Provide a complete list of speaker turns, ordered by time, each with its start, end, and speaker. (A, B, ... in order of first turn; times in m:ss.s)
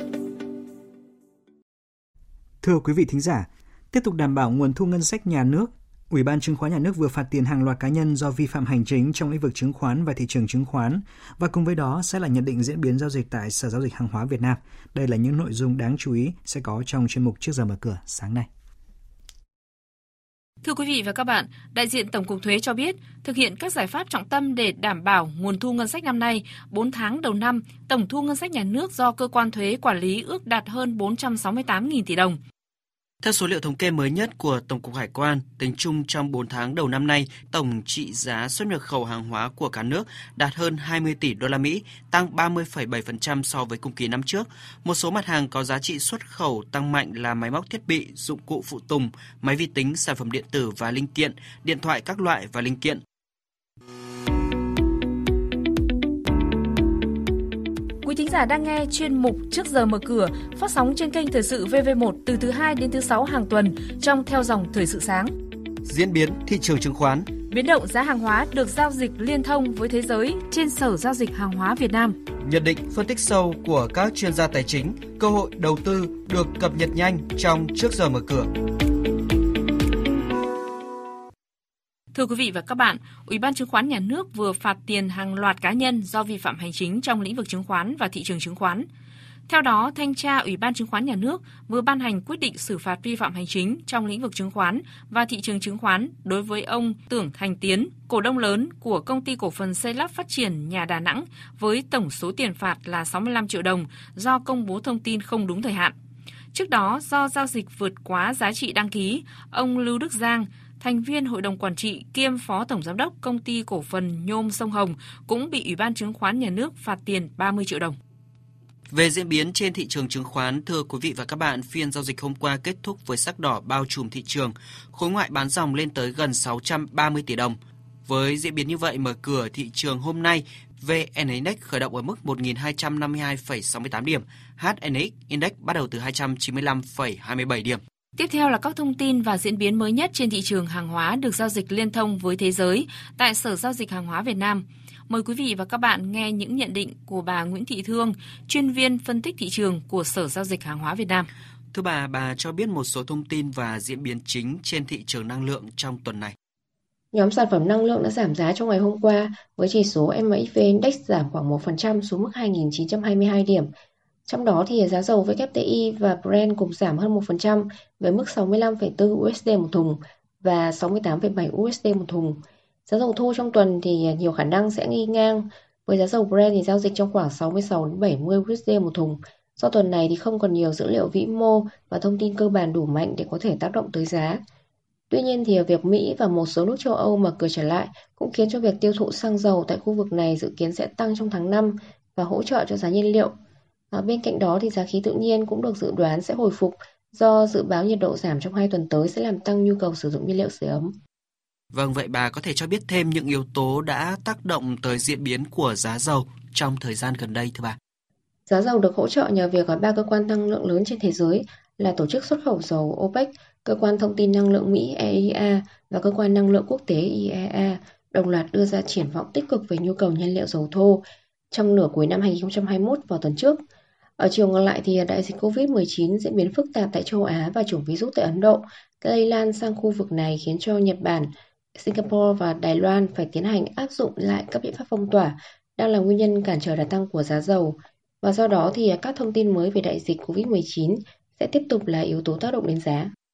0:02.6-0:18.5 A
0:20.6-0:32.4 B
0:33.2-0:53.0 C
0:58.0-1:05.3 B
1:05.8-1:07.3 C
1:07.5-1:12.2 B
1:12.4-1:18.5 C
1:22.1-1:28.8 B
1:29.5-1:45.9 B
1:46.5-1:58.0 B
1:58.9-2:17.8 C
2:18.2-2:31.3 B
2:31.7-2:36.3 C
2:37.1-2:43.7 D
2:44.3-3:04.4 D
3:05.1-3:13.3 D
3:13.9-3:20.9 D
3:21.7-3:27.8 C
3:28.5-3:43.6 D
3:44.2-4:03.1 D